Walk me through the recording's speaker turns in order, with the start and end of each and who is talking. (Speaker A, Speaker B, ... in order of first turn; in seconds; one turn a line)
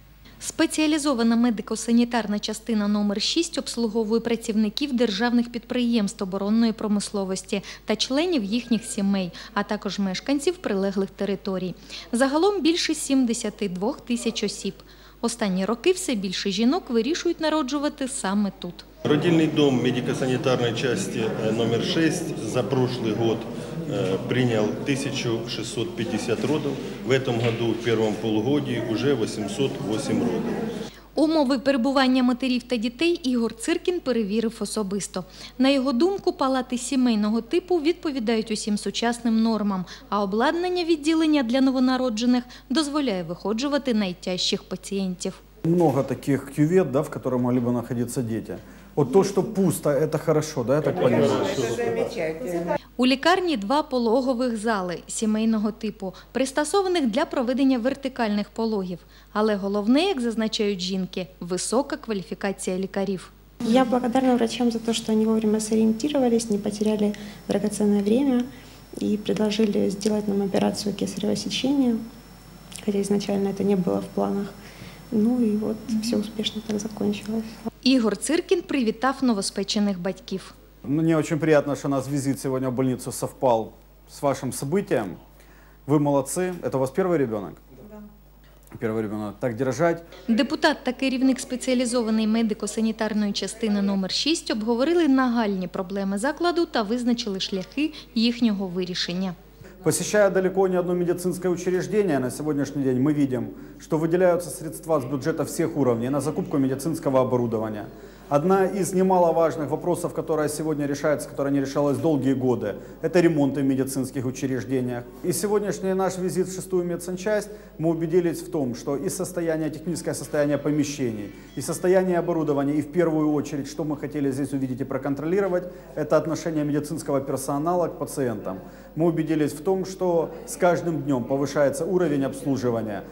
Speaker A: 0.4-18.8
Speaker B: 19.1-30.5
Speaker A: 31.1-45.4
Speaker C: 45.6-51.7
Speaker B: 51.0-52.3
Speaker A: 53.0-63.3
Speaker D: 63.6-68.5
Speaker D: 69.0-72.0
Speaker D: 72.8-74.5
Speaker D: 75.1-77.5
Speaker A: 77.8-80.5
Speaker C: 80.8-85.2
Speaker C: 85.8-87.6
Speaker C: 88.7-90.0
Speaker A: 90.3-99.3
Speaker C: 99.8-133.0